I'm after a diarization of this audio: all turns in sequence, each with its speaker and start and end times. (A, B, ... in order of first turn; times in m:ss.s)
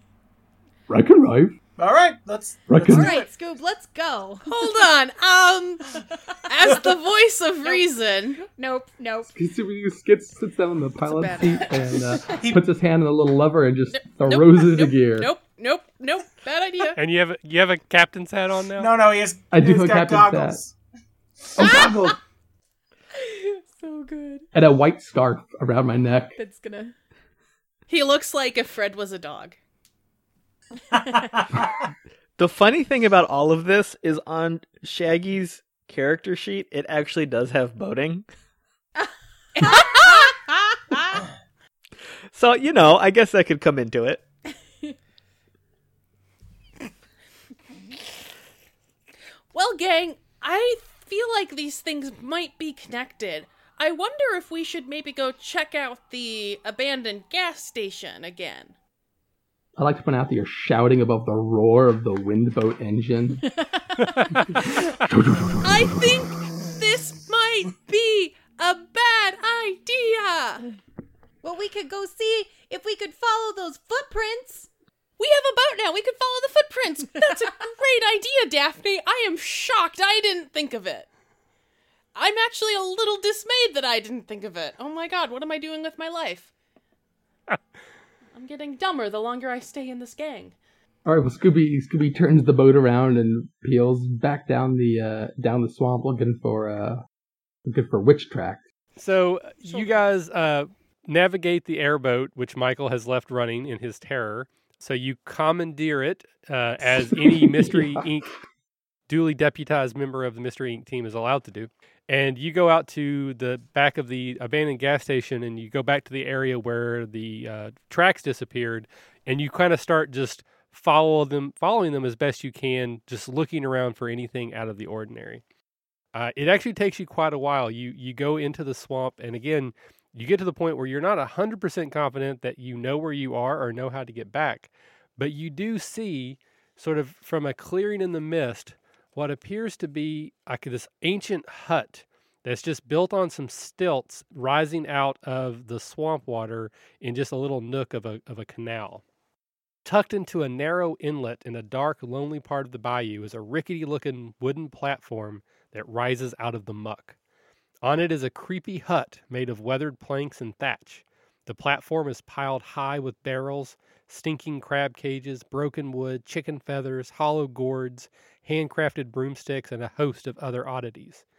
0:00.9-0:01.6 A
0:01.8-0:03.3 B
0:02.7-0:03.2 A
0:02.9-0:04.5 C
0:04.5-0:08.4 D
0:06.1-0:06.4 C
0:08.4-0:09.3 C
0:09.3-0:15.3 A
0:11.0-0:12.1 D
0:13.9-0:17.0 D
0:17.0-0:18.9 E
0:18.8-0:20.7 B
0:19.5-0:20.6 A
0:21.6-0:22.2 A
0:21.6-0:22.2 C
0:23.2-0:24.5 C
0:24.5-0:26.4 A
0:26.4-0:27.0 C
0:27.9-0:29.6 D
0:30.9-0:31.9 B
0:32.4-0:38.3 F
0:39.0-0:41.2 C
0:39.6-0:40.3 D
0:42.3-0:44.2 F
0:49.5-0:58.7 D
0:59.8-1:03.5 A
1:03.6-1:04.3 C
1:04.0-1:04.5 E
1:05.0-1:06.3 A
1:05.6-1:10.6 D
1:11.4-1:14.7 C
1:15.2-1:21.1 D
1:17.3-1:17.6 C
1:22.2-1:26.5 D
1:28.4-1:30.6 D
1:31.0-1:37.0 A
1:37.7-1:38.6 A
1:39.0-1:48.3 E
1:46.9-1:48.0 A
1:49.1-2:05.4 E
2:06.1-2:29.0 E
2:29.8-2:37.2 E
2:37.8-2:51.2 E